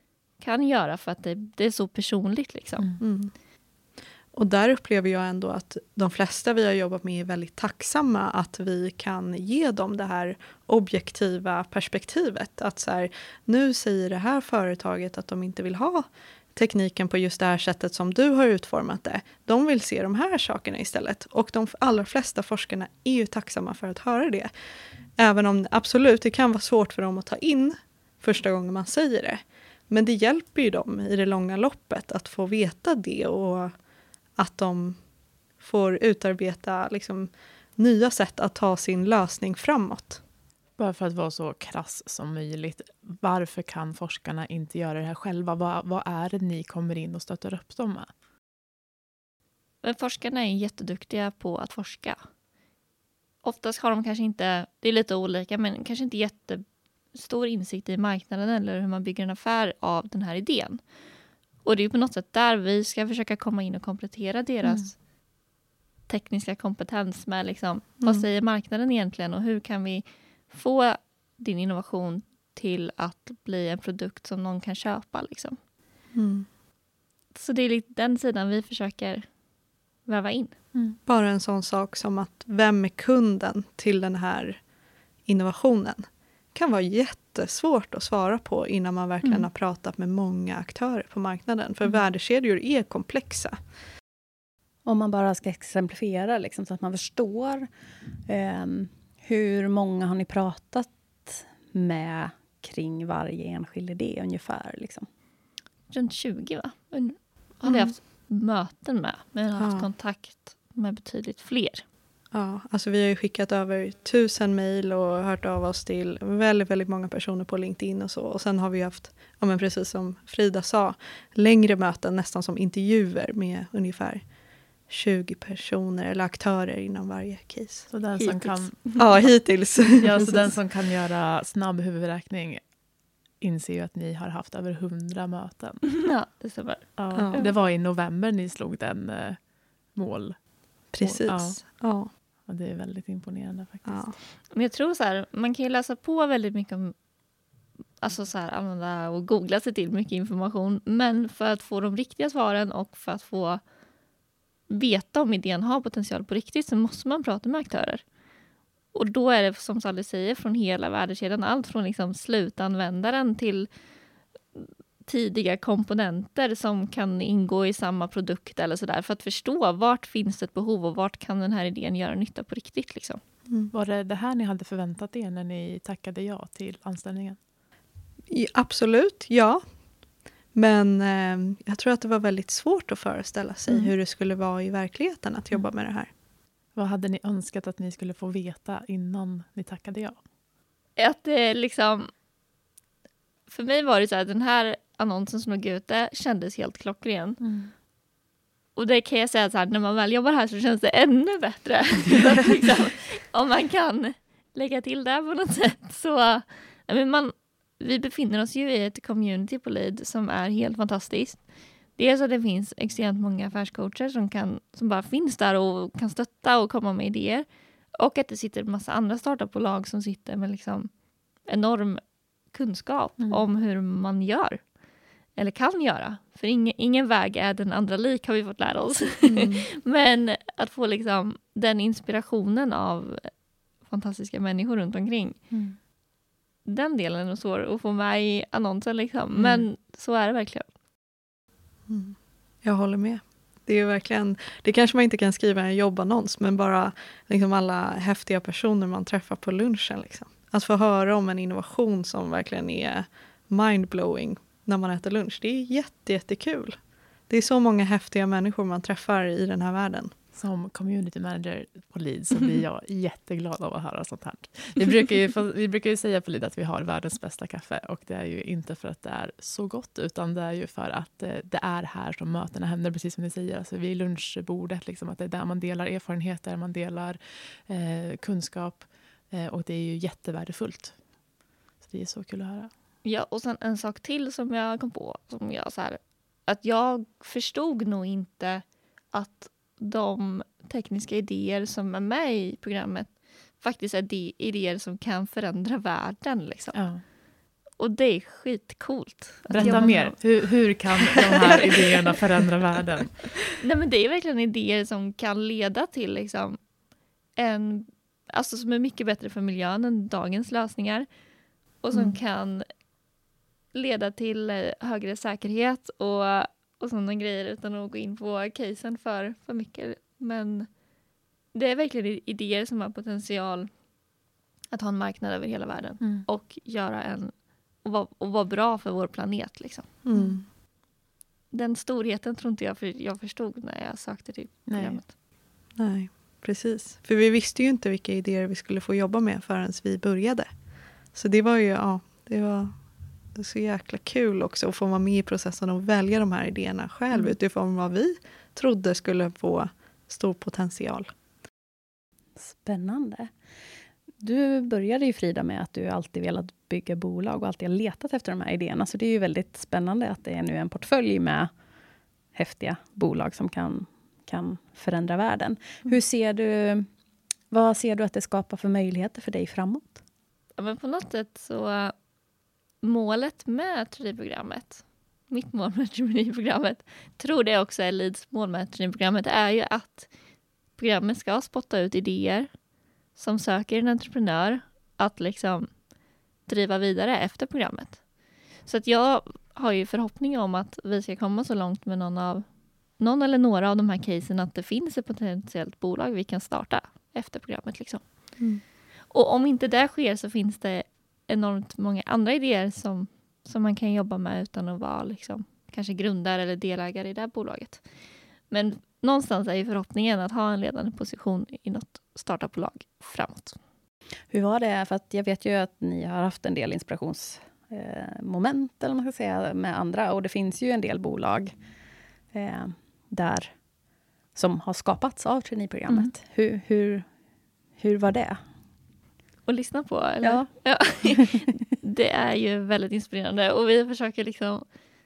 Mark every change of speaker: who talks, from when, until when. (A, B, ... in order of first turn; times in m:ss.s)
0:00.4-0:02.9 A
0:03.0-0:03.3 B
0:04.3-0:24.5 B
0:25.2-0:33.7 B
0:34.4-0:35.0 B
0:35.6-0:40.2 B
0:40.8-0:48.1 C
0:49.8-0:52.2 A
0:53.4-1:00.8 A
1:01.6-1:04.9 A
1:06.1-1:15.6 A
1:16.1-1:16.5 B
1:17.4-1:19.3 A
1:20.0-1:20.6 A
1:21.1-1:24.6 B
1:25.3-1:33.6 B
1:34.8-1:37.7 D
1:38.3-1:45.1 D
1:45.9-1:51.8 A
1:47.7-1:47.9 B
1:49.6-1:49.9 B
1:52.3-2:04.2 B
2:04.9-2:07.9 B
2:07.9-2:08.9 C
2:08.2-2:09.1 A
2:09.0-2:10.6 B
2:10.0-2:12.6 C
2:13.4-2:15.9 C
2:15.9-2:17.5 A
2:17.0-2:19.4 C
2:17.2-2:17.5 B
2:19.9-2:20.4 C
2:20.9-2:22.1 B
2:21.0-2:21.6 C
2:22.5-2:24.1 C
2:23.9-2:24.1 B
2:24.5-2:26.9 A
2:28.0-2:33.6 A
2:34.7-2:38.0 A
2:38.9-2:43.7 A
2:44.6-2:53.2 A
2:53.7-2:57.4 C
2:58.3-2:59.6 B
3:00.5-3:06.1 B
3:06.8-3:10.2 C
3:11.0-3:12.1 A
3:13.5-3:17.4 A
3:17.4-3:17.7 C
3:18.8-3:40.9 A
3:41.4-3:44.6 A
3:45.4-3:53.3 A
3:49.3-3:49.7 B
3:53.8-3:55.4 A
3:55.5-3:55.8 C
3:56.6-4:00.7 A
3:59.4-3:59.6 C
4:01.9-4:16.8 B
4:17.3-4:20.1 B
4:20.3-4:41.0 C
4:41.8-4:42.7 C
4:43.0-4:57.0 A
4:56.7-4:57.0 C
4:57.8-5:01.6 A
4:59.5-5:03.3 C
5:03.5-5:06.6 A
5:07.4-5:11.1 A
5:11.8-5:12.6 A
5:13.7-5:20.7 A
5:21.5-5:23.7 A
5:24.7-5:29.9 A
5:26.0-5:26.2 C
5:30.1-5:30.4 B
5:31.5-5:35.1 A
5:34.7-5:35.0 C
5:35.8-5:40.5 B
5:41.1-5:42.8 B
5:43.3-5:51.1 B
5:52.4-5:53.3 D
5:54.2-6:01.5 D
6:02.3-6:06.9 D
6:07.5-6:10.0 D
6:10.6-6:11.9 A
6:12.8-6:20.1 A
6:20.8-6:22.5 A
6:23.2-6:25.8 A
6:26.5-6:28.1 A
6:28.6-6:32.5 A
6:33.0-6:38.1 A
6:39.1-6:47.8 A
6:48.5-6:53.6 A
6:54.3-7:01.5 D
7:02.3-7:03.6 D
7:04.4-7:07.1 D
7:07.8-7:08.4 D
7:09.5-7:14.7 A
7:10.2-7:10.5 D